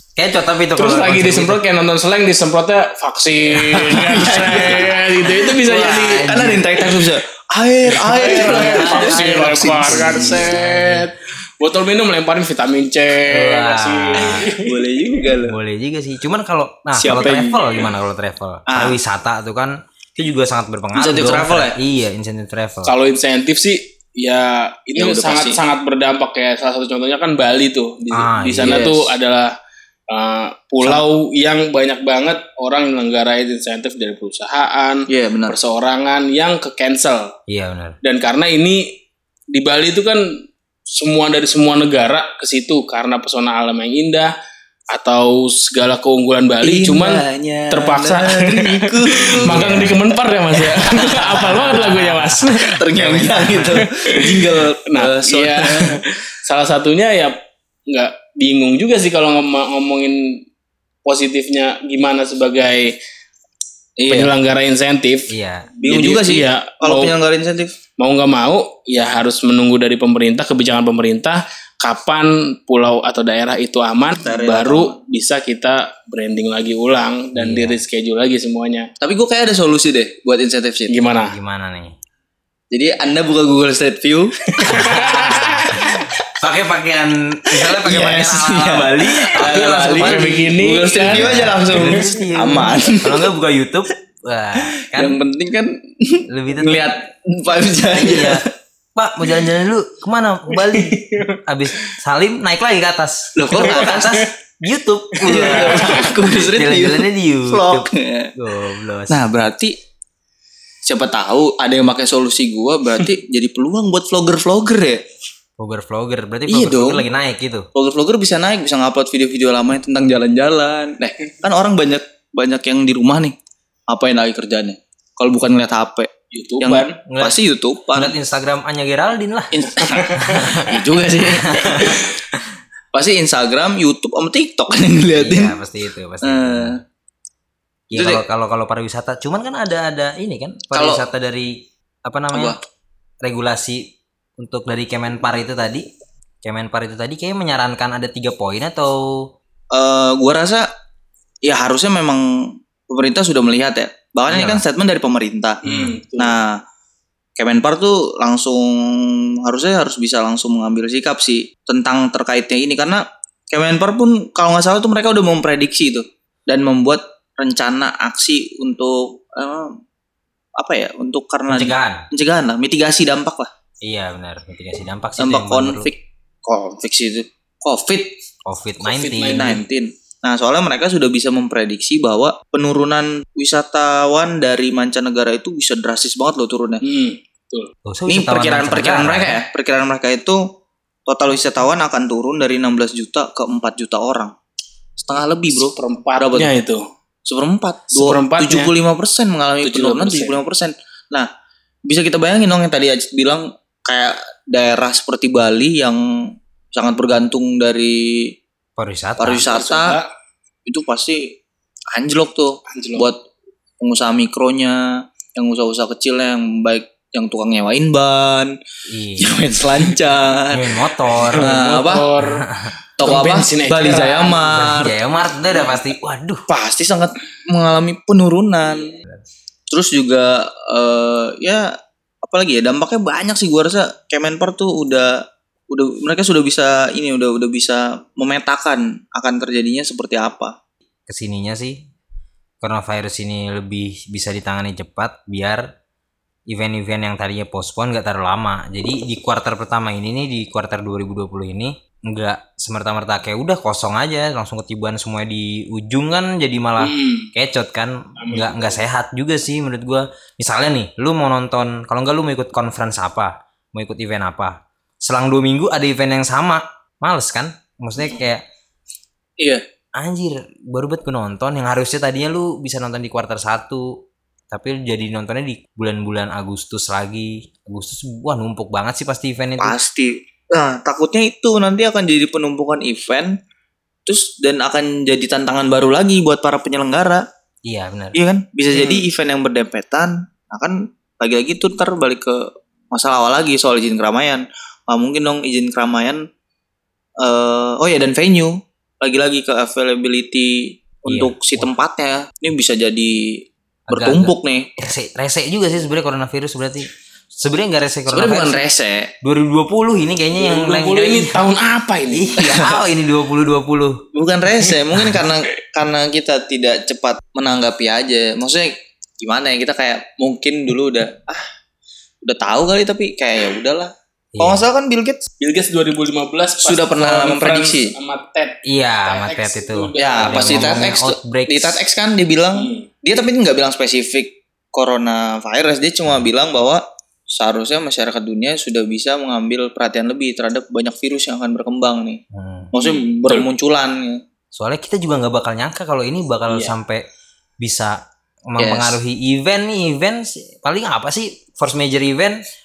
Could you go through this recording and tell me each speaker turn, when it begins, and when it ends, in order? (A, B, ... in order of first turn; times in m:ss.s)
0:00.2-0:01.6 A
0:00.8-0:07.0 B
0:03.8-0:10.5 C
0:05.8-0:06.5 A
0:08.0-0:14.8 B
0:08.4-0:11.0 A
0:13.3-0:14.4 A
0:14.2-0:15.6 C
0:15.5-0:22.9 A
0:17.0-0:17.6 C
0:18.7-0:19.0 C
0:20.9-0:21.8 C
0:22.8-0:29.5 B
0:25.0-0:25.6 C
0:28.1-0:28.8 A
0:28.6-0:29.1 C
0:30.1-0:37.3 B
0:35.1-0:35.6 C
0:37.5-0:38.0 A
0:38.0-0:38.9 B
0:39.5-0:40.2 B
0:40.9-0:44.3 B
0:44.9-0:52.8 B
0:46.6-0:50.0 C
0:49.4-0:49.9 A
0:50.5-0:56.0 C
0:51.7-0:53.8 A
0:53.6-0:57.4 B
0:57.9-1:00.4 B
1:01.0-1:03.0 B
1:04.0-1:04.3 C
1:04.1-1:05.3 B
1:05.3-1:05.7 A
1:05.8-1:07.8 C
1:05.8-1:07.1 B
1:08.0-1:18.9 B
1:14.2-1:15.0 C
1:17.4-1:17.8 A
1:19.0-1:21.0 C
1:20.9-1:21.3 B
1:21.2-1:21.9 A
1:22.7-1:25.1 C
1:24.5-1:26.0 B
1:24.7-1:30.4 A
1:27.7-1:33.3 C
1:29.4-1:32.0 B
1:31.0-1:35.2 A
1:34.8-1:38.5 C
1:36.3-1:36.9 A
1:37.9-1:38.4 A
1:39.0-1:49.2 A
1:40.6-1:41.4 B
1:43.3-1:44.2 C
1:43.8-1:44.0 B
1:45.2-1:48.3 C
1:45.2-1:46.1 B
1:49.1-1:49.7 C
1:50.8-1:55.0 C
1:55.6-1:57.7 A
1:56.5-1:57.0 C
1:57.7-2:03.4 C
2:03.9-2:08.1 C
2:06.3-2:07.0 B
2:07.1-2:07.4 A
2:07.9-2:10.7 A
2:09.5-2:12.0 C
2:09.8-2:10.5 B
2:11.2-2:12.0 A
2:12.9-2:15.6 C
2:15.2-2:16.8 A
2:16.2-2:16.8 C
2:17.9-2:22.6 A
2:17.9-2:18.2 C
2:20.7-2:21.0 C
2:22.3-2:22.6 C
2:23.2-2:25.8 A
2:26.4-2:29.3 A
2:29.7-2:30.7 C
2:31.4-2:35.6 C
2:34.3-2:34.6 A
2:35.6-2:36.4 B
2:35.6-2:36.0 A
2:36.2-2:36.6 C
2:37.4-2:49.7 C
2:50.6-2:53.5 C
2:51.5-2:52.0 A
2:53.8-2:55.9 A
2:55.2-2:58.2 C
2:58.4-2:59.6 A
2:58.8-2:59.6 B
2:59.2-3:06.8 C
3:06.8-3:07.7 B
3:07.8-3:09.4 A
3:08.1-3:10.4 C
3:11.1-3:14.3 C
3:15.0-3:16.5 C
3:15.5-3:16.8 B
3:17.2-3:21.3 C
3:17.9-3:18.7 B
3:19.6-3:20.4 B
3:21.9-3:28.4 C
3:28.8-3:29.5 A
3:29.2-3:30.0 C
3:29.4-3:30.1 B
3:30.6-3:31.4 C
3:31.9-3:33.2 C
3:32.7-3:33.1 B
3:33.8-3:38.5 C
3:38.9-3:39.4 A
3:39.2-3:40.7 C
3:40.5-3:41.5 A
3:41.3-3:42.4 B
3:41.3-3:42.1 C
3:42.2-3:42.7 A
3:43.0-3:44.9 C
3:43.0-3:44.4 B
3:44.5-3:46.4 A
3:46.5-3:48.9 C
3:49.7-3:51.7 C
3:52.2-4:00.5 C
4:01.1-4:01.8 A
4:02.6-4:05.6 A
4:06.5-4:28.4 A
4:16.8-4:17.3 B
4:18.2-4:18.8 B
4:30.0-4:33.9 A
4:34.5-4:39.8 A
4:39.6-4:43.3 C
4:44.0-4:47.2 C
4:47.6-4:48.2 A
4:48.1-4:56.2 C
4:57.2-5:04.7 C
5:01.1-5:01.7 A
5:03.9-5:08.6 A
5:08.1-5:09.1 C
5:09.2-5:11.4 A
5:10.4-5:12.6 B
5:12.1-5:14.0 A
5:14.1-5:21.5 C
5:22.2-5:25.2 C
5:24.3-5:24.6 A
5:25.4-5:30.9 B
5:26.6-5:27.9 C
5:28.6-5:31.8 A
5:30.0-5:42.2 C
5:32.5-5:32.8 B
5:42.3-5:42.7 A
5:42.7-5:44.2 C
5:42.8-5:43.5 B
5:44.5-5:47.0 A
5:46.5-5:46.7 B
5:47.6-5:48.0 A
5:48.5-5:52.4 A
5:48.6-5:49.0 C